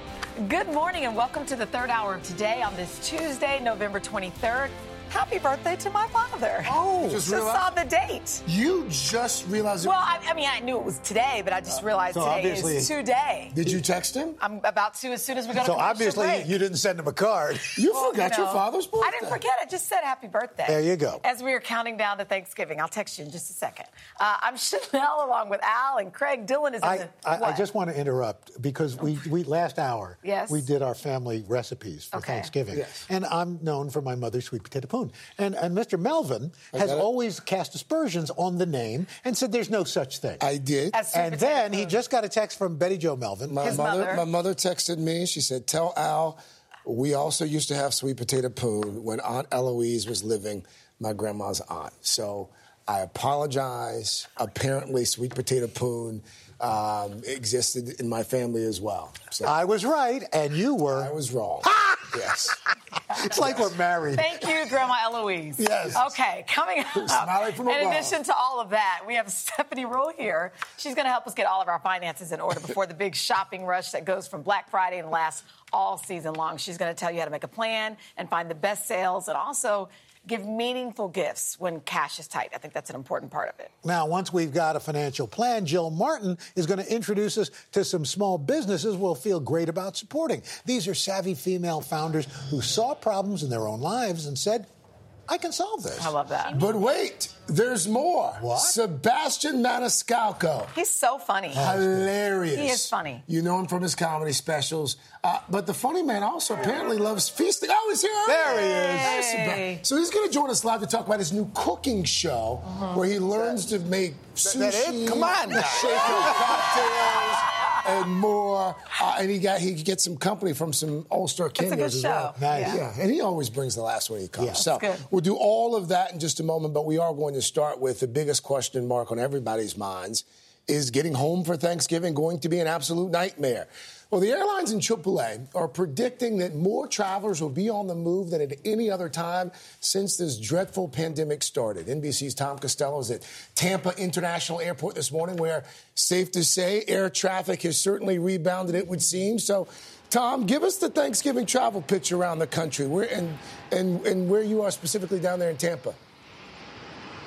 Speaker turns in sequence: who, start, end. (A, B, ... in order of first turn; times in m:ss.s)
0:00.4-0:08.4 A
0:06.7-0:07.7 B
0:08.4-0:10.0 B
0:09.8-0:13.6 A
0:12.1-0:12.9 C
0:13.5-0:14.4 B
0:14.4-0:16.5 A
0:15.6-0:17.8 C
0:17.8-0:19.4 B
0:17.9-0:27.6 A
0:20.6-0:21.2 C
0:26.8-0:40.4 C
0:30.2-0:30.6 A
0:32.1-0:32.5 A
0:32.7-0:33.0 B
0:36.7-0:37.0 B
0:40.4-0:41.0 B
0:40.9-0:42.0 A
0:41.1-0:43.8 C
0:43.5-0:59.5 B
0:43.6-0:44.2 A
0:59.4-1:01.1 C
1:00.9-1:02.6 B
1:01.6-1:02.5 C
1:03.1-1:04.5 C
1:04.1-1:23.7 A
1:05.6-1:06.1 B
1:07.0-1:08.2 B
1:23.8-1:34.7 C
1:35.3-1:36.1 C
1:36.0-1:36.6 A
1:36.5-1:40.7 B
1:38.4-1:38.8 C
1:40.7-1:41.7 A
1:41.5-2:36.0 B
1:41.5-1:42.1 C
1:42.5-1:43.2 A
1:48.2-1:49.3 C
1:48.5-1:49.8 A
1:54.4-1:57.4 C
2:01.6-2:02.8 A
2:02.3-2:02.8 C
2:04.4-2:04.6 C
2:04.6-2:05.0 A